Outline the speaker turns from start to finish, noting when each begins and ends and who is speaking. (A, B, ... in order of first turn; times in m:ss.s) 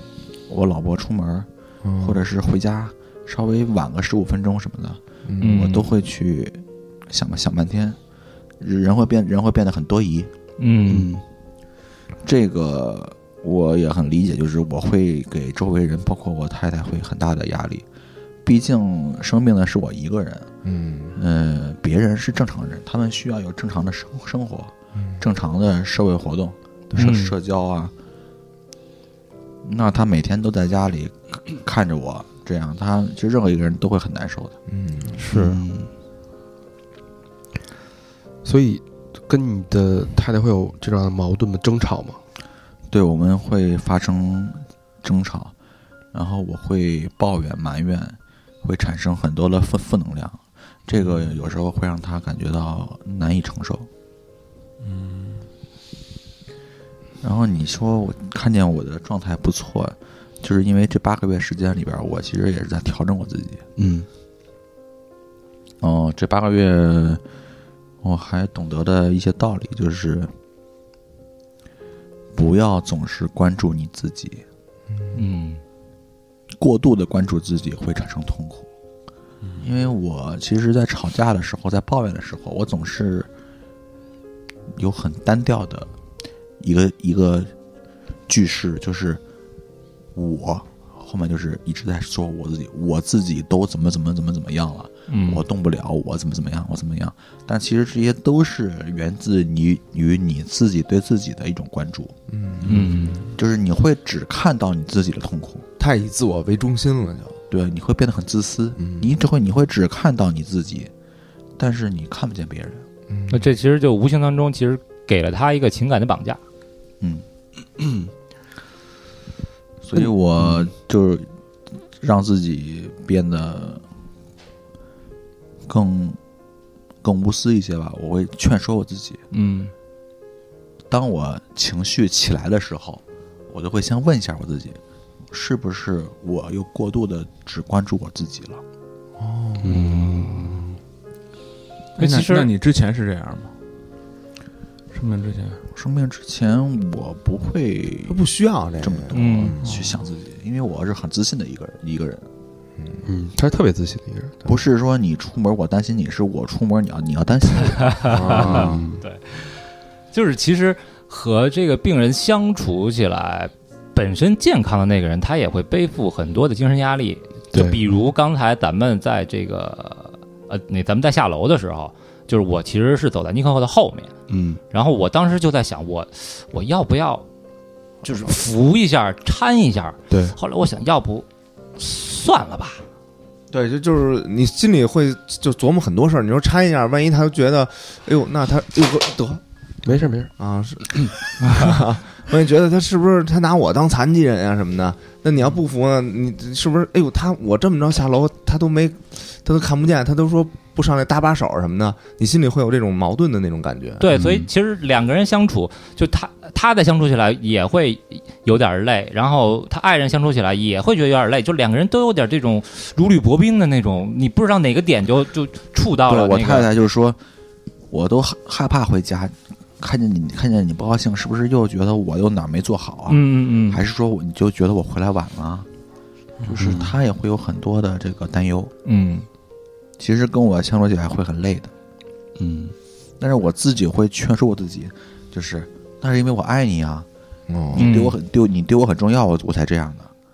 0:00.5-0:01.5 A
0:01.8-0:02.2 B
0:02.0-0:08.0 A
0:05.2-0:05.7 B
0:05.4-0:05.9 C
0:08.6-0:10.3 A
0:10.6-0:11.2 C
0:10.9-0:11.2 D
0:12.2-0:17.8 A
0:18.4-0:20.5 A
0:20.6-0:21.2 B
0:21.2-0:27.9 A
0:24.9-0:25.2 B
0:26.9-0:27.4 C
0:29.6-0:34.6 A
0:34.7-0:35.2 B
0:35.2-0:35.6 C
0:35.3-0:35.9 D
0:38.4-0:42.2 D
0:42.9-0:45.5 A
0:46.1-0:53.9 A
0:50.9-0:51.4 E
0:54.8-0:55.4 E
0:57.2-1:03.6 A
1:03.8-1:04.1 D
1:05.8-1:07.2 A
1:08.0-1:10.3 A
1:12.3-1:14.4 A
1:14.9-1:15.2 B
1:15.1-1:15.6 C
1:16.6-1:18.7 A
1:19.4-1:19.7 E
1:19.6-1:23.3 A
1:24.7-1:25.9 A
1:26.6-1:27.5 A
1:28.3-1:29.2 A
1:30.1-1:42.1 A
1:35.1-1:35.4 C
1:42.3-1:42.8 B
1:42.6-1:43.3 C
1:43.4-1:45.6 A
1:45.8-1:47.4 B
1:47.5-1:50.9 A
1:48.8-1:49.1 B
1:51.6-1:52.8 A
1:53.1-1:53.5 B
1:53.3-1:56.4 C
1:59.8-2:01.3 A
2:02.0-2:03.8 A
2:05.7-2:06.2 A
2:07.0-2:09.2 A
2:09.3-2:09.7 C
2:10.9-2:18.6 A
2:19.2-2:20.4 B
2:19.6-2:20.7 D
2:19.8-2:20.1 C
2:22.0-2:23.5 E
2:22.0-2:22.5 C
2:24.9-2:25.6 E
2:25.7-2:28.3 A
2:28.1-2:29.7 B
2:28.8-2:32.3 A
2:29.1-2:29.6 C
2:29.6-2:30.0 E
2:32.8-2:33.0 B
2:33.0-2:34.4 D
2:34.4-2:38.0 A
2:37.6-2:54.1 C
2:38.1-2:38.8 B
2:38.5-2:39.0 D
2:47.5-2:47.8 D
2:54.3-2:54.6 D
2:54.7-2:57.2 C
2:58.0-3:02.8 C
3:00.1-3:00.4 D
3:03.5-3:09.4 B
3:09.8-3:10.3 D
3:10.4-3:24.0 B
3:24.0-3:36.7 C
3:36.1-3:37.2 A
3:37.9-3:45.7 A
3:43.1-3:43.8 C
3:46.4-3:48.7 A
3:46.6-3:46.9 D
3:48.8-3:49.3 C
3:50.0-3:51.7 A
3:52.4-3:52.7 D
3:53.2-3:57.1 A
3:57.5-3:57.9 B
3:57.7-3:58.2 C
3:57.7-4:00.1 A